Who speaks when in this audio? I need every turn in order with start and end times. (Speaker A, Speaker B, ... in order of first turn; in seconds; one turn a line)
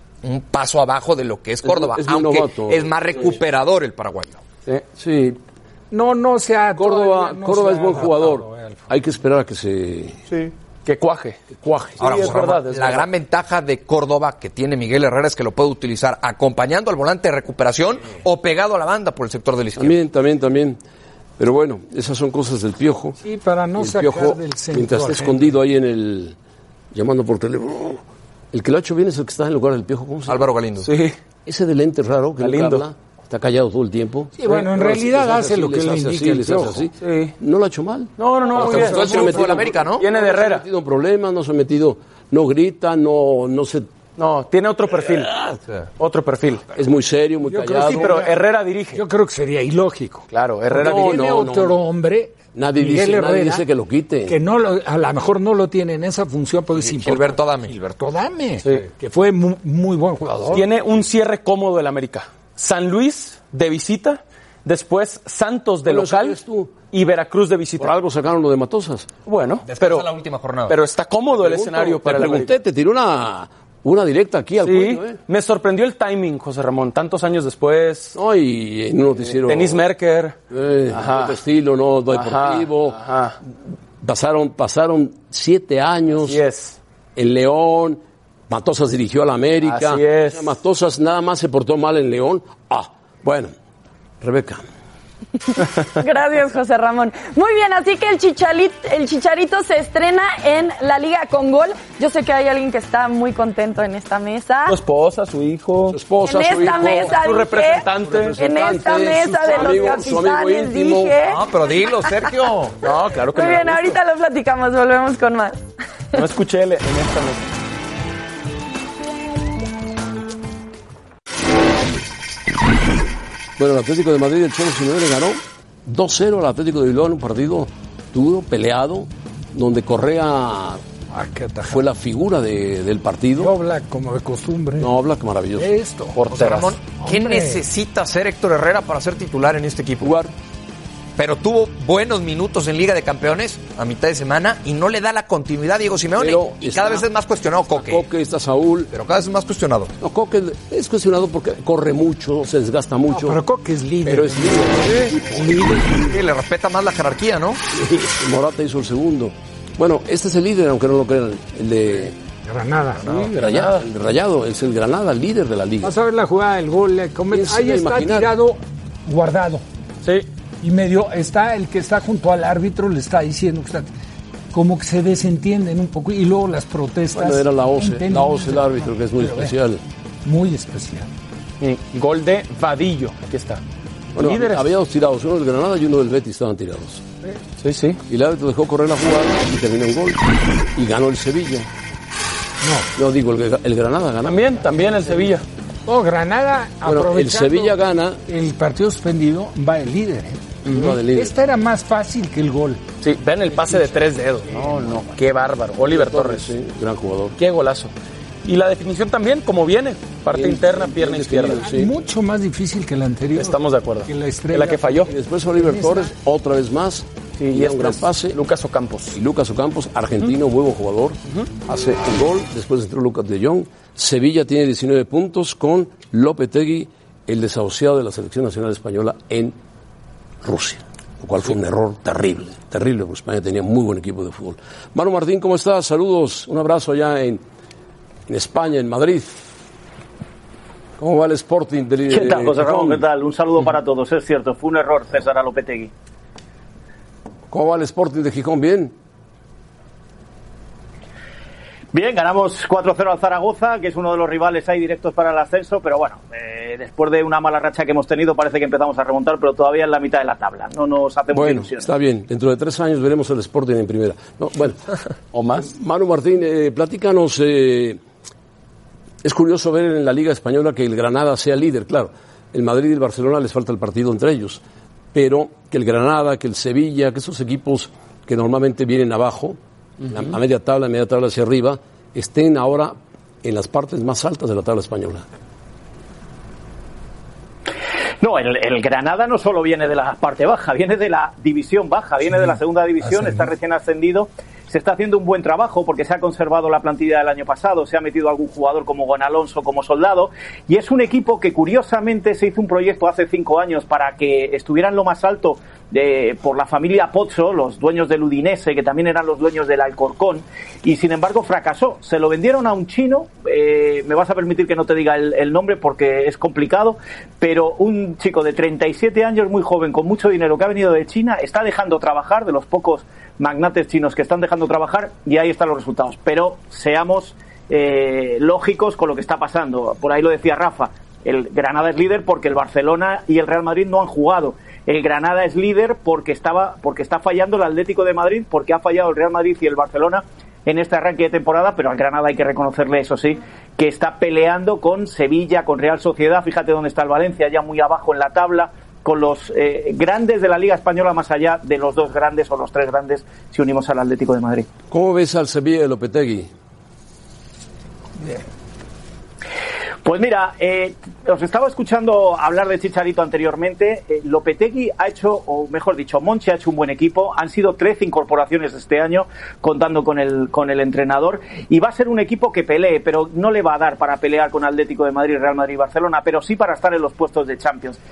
Speaker A: 0.2-4.4
Speaker B: 1.6-2.9
Speaker B: 5.0-5.4
Speaker C: 5.9-8.9
Speaker B: 6.7-10.2
Speaker D: 10.3-11.4
Speaker B: 11.5-12.4
Speaker D: 12.0-13.1
Speaker A: 12.0-20.0
Speaker B: 19.8-20.8
Speaker B: 21.4-23.2
Speaker C: 23.2-25.5
Speaker B: 23.8-26.4
Speaker B: 26.9-30.5
Speaker A: 30.3-30.9
Speaker D: 30.8-31.1
Speaker B: 31.4-43.9
Speaker D: 32.4-32.8
Speaker C: 34.4-36.9
Speaker D: 37.0-37.3
Speaker D: 38.2-39.3
Speaker C: 38.5-39.6
Speaker A: 38.6-40.0
Speaker D: 40.0-40.6
Speaker D: 44.2-45.3
Speaker B: 45.0-45.6
Speaker D: 46.0-46.6
Speaker B: 46.7-48.2
Speaker C: 47.5-48.4
Speaker D: 47.8-49.0
Speaker C: 48.9-53.6
Speaker D: 50.3-51.2
Speaker B: 50.7-51.8
Speaker B: 52.5-54.4
Speaker C: 54.3-60.7
Speaker A: 56.8-57.8
Speaker D: 60.5-66.4
Speaker B: 65.8-66.7
Speaker D: 66.9-68.0
Speaker B: 67.8-69.1
Speaker D: 69.2-70.1
Speaker A: 69.7-70.8
Speaker D: 70.7-72.5
Speaker B: 71.3-75.2
Speaker D: 74.6-78.2
Speaker B: 78.1-79.8
Speaker D: 79.3-80.3
Speaker B: 80.5-83.0
Speaker D: 80.9-81.4
Speaker D: 82.1-83.4
Speaker B: 84.0-86.4
Speaker D: 86.1-86.8
Speaker B: 87.2-93.5
Speaker D: 89.6-90.5
Speaker B: 94.2-94.6
Speaker E: 95.5-104.8
Speaker D: 104.7-106.0
Speaker B: 105.9-107.2
Speaker E: 106.2-112.2
Speaker D: 106.8-108.4
Speaker B: 107.8-111.1
Speaker D: 109.5-109.9
Speaker A: 111.2-112.8
Speaker D: 112.8-114.0
Speaker E: 113.3-115.6
Speaker D: 116.1-117.5
Speaker B: 123.6-130.8
Speaker C: 131.1-131.8
Speaker B: 131.7-133.5
Speaker C: 133.4-134.9
Speaker B: 134.8-135.7
Speaker C: 135.6-137.6
Speaker D: 136.1-136.7
Speaker A: 136.3-140.1
Speaker B: 140.0-140.3
Speaker A: 141.2-148.0
Speaker B: 146.2-147.1
Speaker B: 147.7-148.9
Speaker A: 148.9-149.9
Speaker B: 150.0-153.4
Speaker C: 153.1-156.1
Speaker B: 154.0-156.2
Speaker A: 156.1-157.6
Speaker B: 157.7-162.1
Speaker C: 162.4-163.1
Speaker D: 163.0-163.8
Speaker B: 163.2-165.9
Speaker C: 165.8-169.6
Speaker B: 167.3-168.3
Speaker D: 170.0-170.3
Speaker C: 170.6-173.9
Speaker C: 174.5-179.6
Speaker B: 177.1-179.8
Speaker C: 180.2-181.1
Speaker D: 181.6-183.6
Speaker B: 184.1-187.0
Speaker D: 184.2-184.7
Speaker D: 187.6-188.0
Speaker B: 188.1-190.2
Speaker B: 190.7-191.7
Speaker C: 192.6-192.9
Speaker B: 192.9-194.5
Speaker D: 194.2-195.4
Speaker C: 195.8-202.8
Speaker B: 196.8-198.2
Speaker D: 200.7-201.0
Speaker B: 200.7-201.3
Speaker D: 203.0-206.5
Speaker C: 203.5-205.1
Speaker B: 205.8-207.4
Speaker D: 207.4-207.9
Speaker D: 208.4-211.7
Speaker B: 210.3-212.0
Speaker C: 211.6-216.1
Speaker D: 213.3-215.1
Speaker B: 215.1-218.4
Speaker D: 217.4-219.2
Speaker B: 219.1-229.6
Speaker B: 230.4-237.4
Speaker B: 238.3-239.4
Speaker B: 241.0-243.0
Speaker F: 242.1-245.9
Speaker B: 247.5-248.9
Speaker F: 251.9-261.9
Speaker B: 261.3-264.8
Speaker D: 265.3-265.7
Speaker B: 265.6-268.0
Speaker B: 269.2-274.6
Speaker B: 275.1-285.2
Speaker F: 288.2-354.7
Speaker C: 293.0-293.5
Speaker B: 354.9-356.5
Speaker F: 360.0-378.0